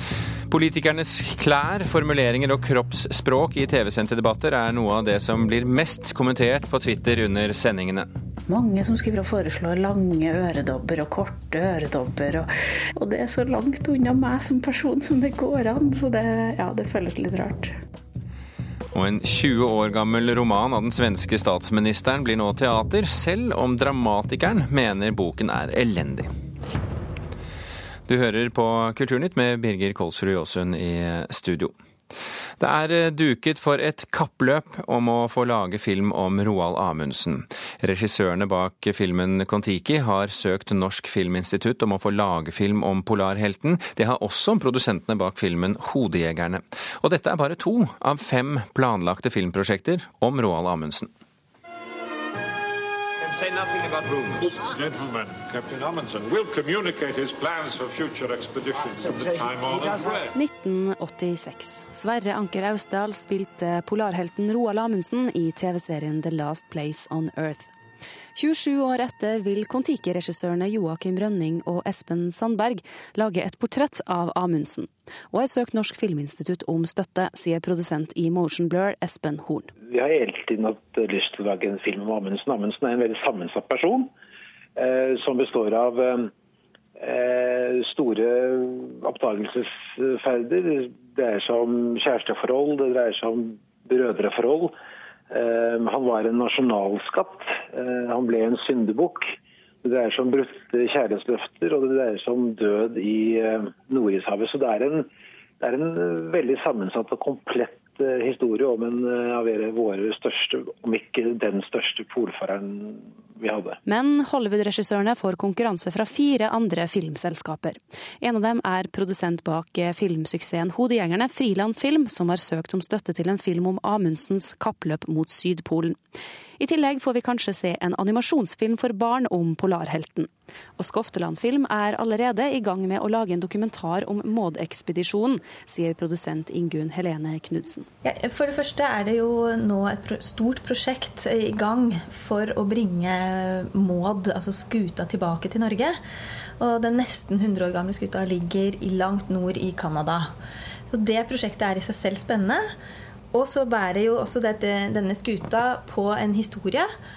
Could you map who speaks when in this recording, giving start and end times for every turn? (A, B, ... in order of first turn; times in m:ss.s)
0:00.5-0:08.1 A
0:08.5-0:17.7 B
0:18.9-0:26.3 A
0:28.1-0:31.8 A
0:32.6-0:51.1 A
0:53.5-0:54.5 C
0:54.6-1:00.1 D
0:55.8-0:57.0 C
1:00.3-1:07.7 E
1:08.4-1:19.7 E
1:19.9-1:24.1 F
1:24.8-1:26.3 F
1:27.0-1:34.7 F
1:35.3-1:39.3 F
1:39.8-1:45.1 F
1:45.6-1:53.8 F
1:53.9-2:06.0 E
2:06.6-2:17.9 E
2:18.0-2:26.0 G
2:26.6-2:30.3 G
2:30.9-2:32.7 G
2:33.3-2:36.9 G